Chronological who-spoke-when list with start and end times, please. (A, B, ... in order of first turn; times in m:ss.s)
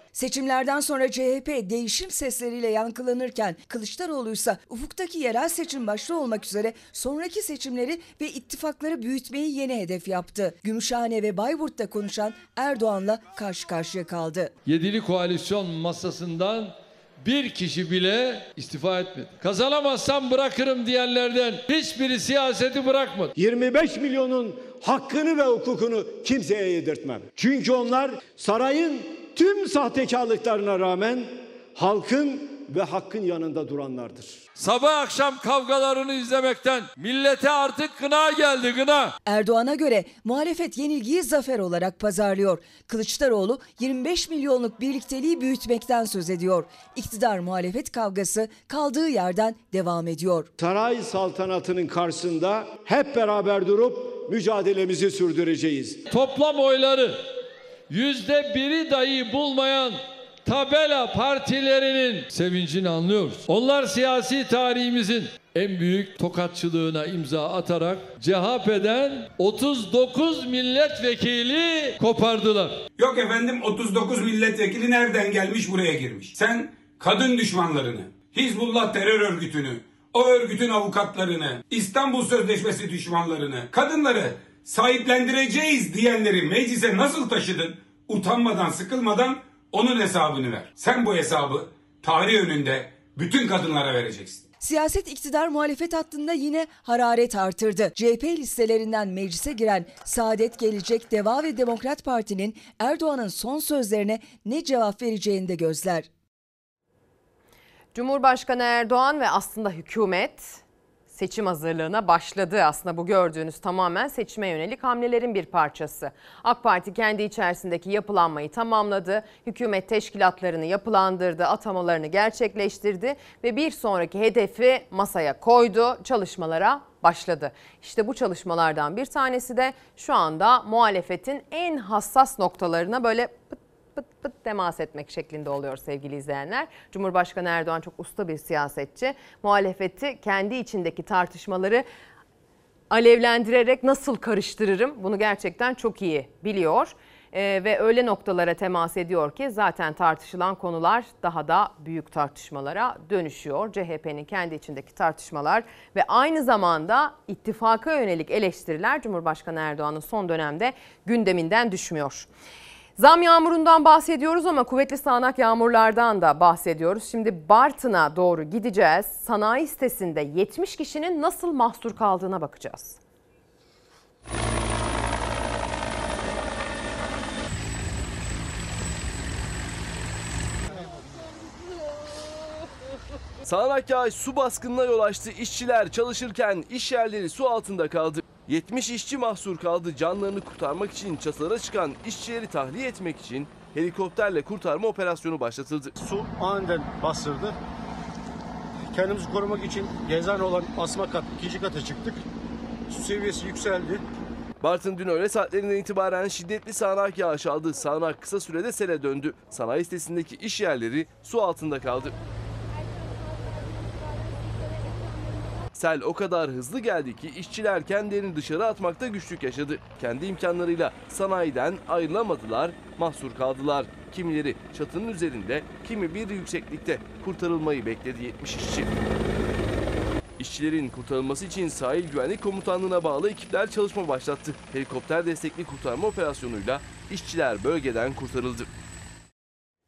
0:00.1-0:14.5 A
0:14.6-0:23.3 B
0:23.4-0:34.4 C
0:34.6-0:39.2 B
0:39.2-0:50.5 A
0:50.6-0:56.0 C
0:56.1-0:57.2 B
0:57.9-1:12.8 B
1:13.0-1:34.4 D
1:34.6-1:46.1 A
1:47.9-2:21.8 E
2:22.9-2:42.3 E
2:43.0-2:53.0 E
3:03.4-3:15.9 F
3:16.0-3:17.5 G
3:18.9-3:22.2 G
3:22.9-3:23.9 G
3:24.6-3:32.1 F
3:35.7-3:48.9 F
3:50.4-3:58.7 F